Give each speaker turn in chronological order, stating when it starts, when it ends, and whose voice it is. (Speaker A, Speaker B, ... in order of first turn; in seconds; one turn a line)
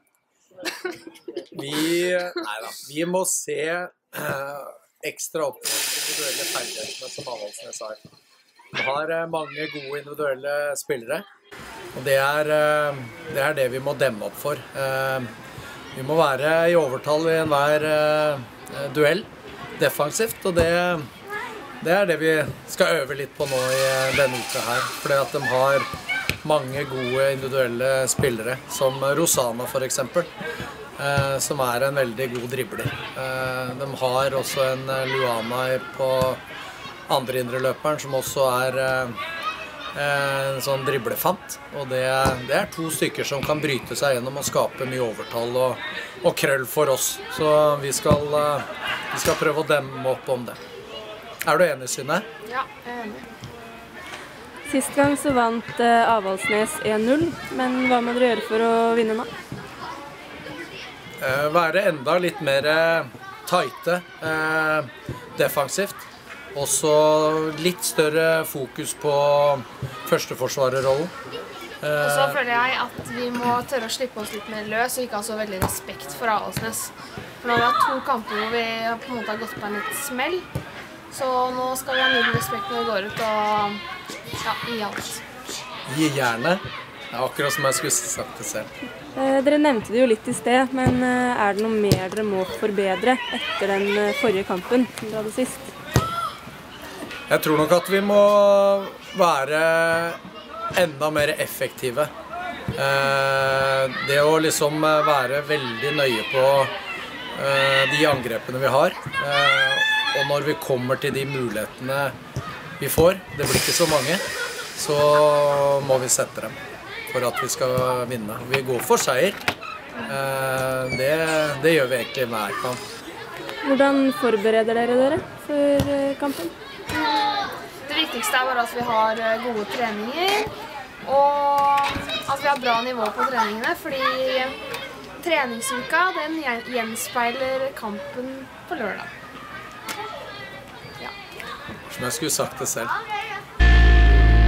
Speaker A: 1.5-8.0
Speaker A: 8.7-11.2
Speaker A: 11.9-15.3
Speaker A: 15.9-21.1
Speaker A: 21.8-25.9
Speaker A: 26.4-30.3
Speaker A: 31.0-36.4
Speaker A: 37.1-39.2
Speaker A: 39.9-50.6
Speaker A: 51.4-52.2
Speaker B: 52.5-53.3
Speaker C: 54.7-59.3
Speaker A: 61.2-71.1
Speaker A: 71.8-72.4
Speaker B: 72.0-80.5
Speaker B: 81.1-83.8
Speaker B: 84.4-85.2
Speaker A: 85.9-88.7
Speaker C: 89.2-95.7
Speaker A: 97.3-100.2
Speaker A: 100.7-102.1
Speaker A: 102.8-106.7
Speaker A: 107.3-112.1
Speaker A: 112.8-114.2
Speaker A: 114.7-116.5
Speaker A: 117.1-119.4
Speaker A: 120.0-122.8
Speaker C: 123.6-126.5
Speaker B: 126.9-130.5
Speaker B: 131.0-134.5
Speaker B: 135.2-139.1
Speaker A: 141.9-142.9